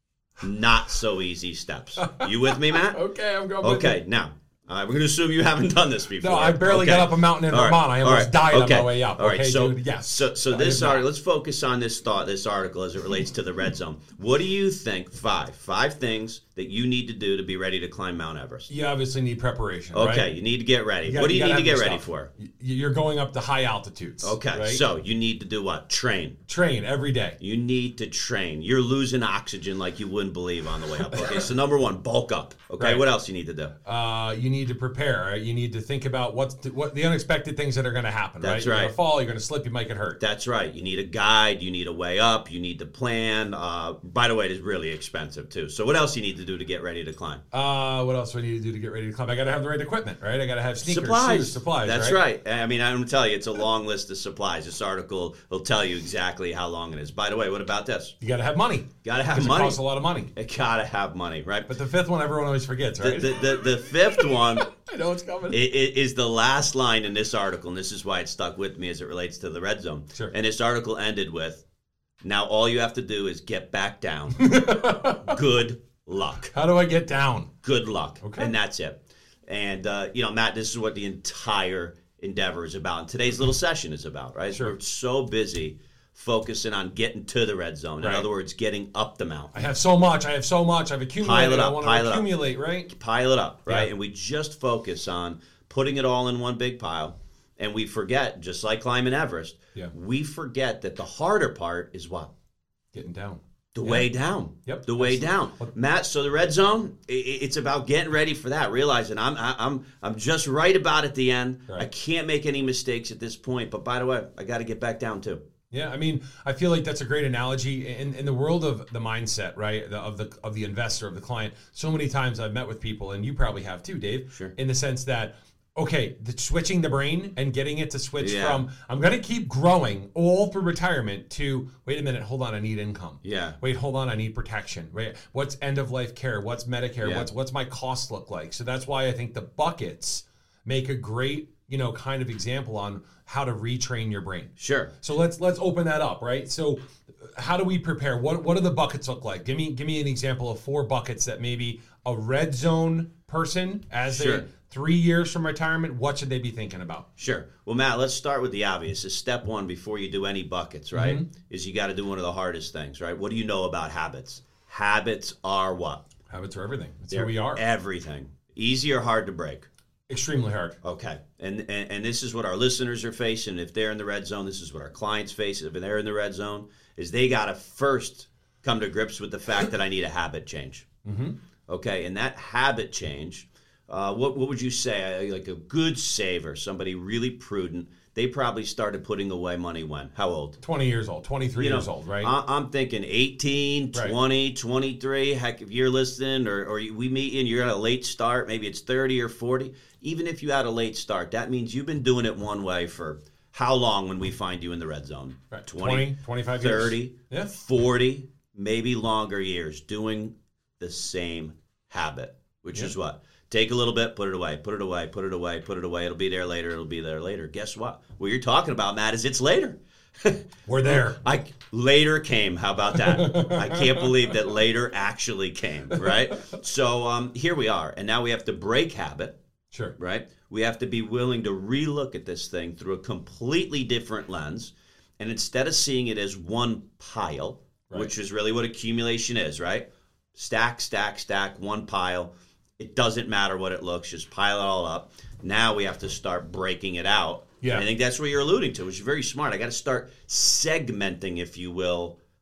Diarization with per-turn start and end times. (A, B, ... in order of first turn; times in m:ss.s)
0:00.4-0:03.0 A
0:02.0-0:04.0 B
0:03.6-0:18.7 A
0:06.2-0:11.0 B
0:18.7-0:20.3 B
0:19.9-0:22.3 A
0:21.1-0:24.8 B
0:24.2-0:26.4 A
0:26.5-0:27.4 B
0:27.4-0:33.7 A
0:31.1-0:31.4 B
0:33.8-0:40.2 B
0:38.4-0:38.9 A
0:40.2-0:47.4 A
0:47.5-0:52.2 B
0:50.8-0:58.2 A
0:58.2-1:00.3 B
0:59.0-0:59.8 A
1:00.3-1:01.7 A
1:01.7-1:03.4 B
1:03.0-1:04.7 A
1:04.1-1:05.6 B
1:05.5-1:11.6 A
1:12.2-1:14.6 A
1:14.4-1:15.4 B
1:15.2-1:16.5 A
1:16.5-1:17.5 B
1:17.6-1:29.7 A
1:18.2-1:18.5 B
1:29.5-1:32.9 B
1:31.2-1:32.3 A
1:32.9-1:42.3 A
1:42.9-1:44.1 B
1:43.7-1:55.4 A
1:44.7-1:45.7 B
1:55.7-2:37.1 B
2:08.2-2:08.6 A
2:13.2-2:13.6 A
2:17.0-2:17.3 A
2:24.6-2:24.9 A
2:34.1-2:34.5 A
2:37.2-2:46.0 A
2:40.9-2:41.3 B
2:46.3-2:47.6 B
2:47.1-2:49.7 A
2:50.1-2:50.8 B
2:50.8-3:00.9 A
3:01.0-3:01.4 B
3:01.7-3:10.6 A
3:10.6-3:12.3 B
3:11.6-3:49.4 A
3:25.5-3:27.5 B
3:40.7-3:41.2 B
3:43.0-3:44.3 B
3:45.9-3:46.6 B
3:50.0-4:12.2 A